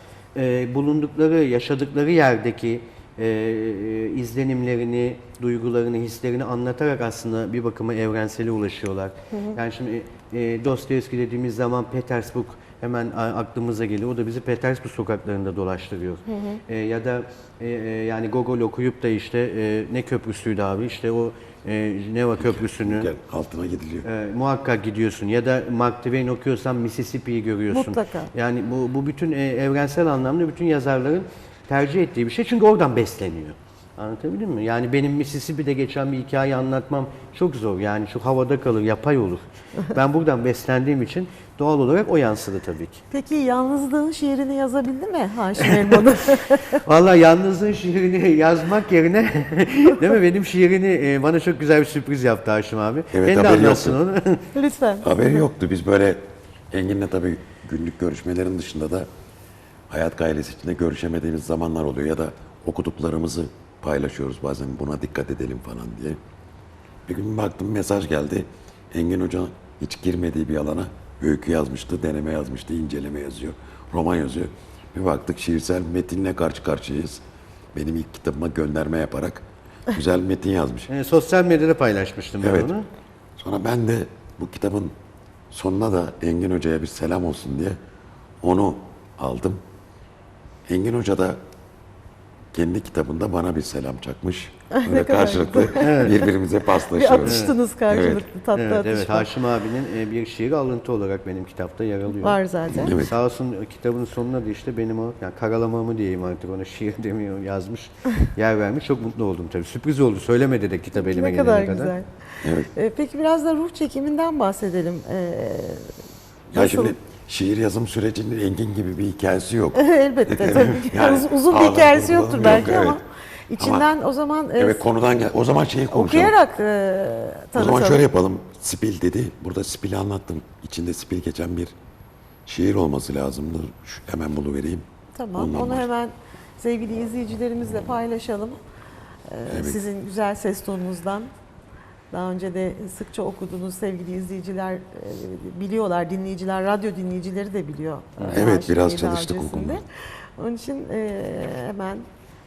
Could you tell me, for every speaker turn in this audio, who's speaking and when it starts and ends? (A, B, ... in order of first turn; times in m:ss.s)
0:00.3-0:23.1 A
0:09.3-0:09.6 B
0:16.3-0:16.6 B
0:22.4-0:24.1 C
0:24.0-0:43.0 A
0:27.7-0:28.3 B
0:43.1-0:46.8 B
0:45.6-0:46.0 A
0:46.7-0:54.5 A
0:53.1-0:54.0 C
0:54.5-0:55.4 B
0:55.0-0:59.1 C
0:59.9-1:06.2 C
1:07.1-1:17.2 C
1:17.7-1:20.9 C
1:20.9-1:22.9 A
1:22.4-1:22.7 C
1:23.4-1:24.9 C
1:25.5-1:27.8 C
1:28.4-1:29.6 C
1:30.7-1:31.4 C
1:32.5-1:38.3 C
1:34.7-1:36.1 B
1:35.8-1:36.1 A
1:36.9-1:39.3 B
1:37.2-1:37.5 A
1:38.5-1:51.9 A
1:42.2-1:42.9 B
1:42.7-1:43.1 C
1:50.9-1:52.1 B
1:52.4-1:52.7 C
1:52.7-1:55.9 B
1:56.5-2:03.0 C
1:56.5-1:56.9 B
1:59.7-2:04.8 B
2:03.6-2:03.9 C
2:04.6-2:06.4 C
2:05.9-2:08.0 B
2:07.6-2:11.7 C
2:12.4-2:14.8 C
2:15.1-2:18.6 B
2:15.4-2:15.9 C
2:19.3-2:21.3 B
2:19.5-2:19.8 C
2:22.1-2:29.8 B
2:28.3-2:29.8 C
2:30.4-2:32.0 B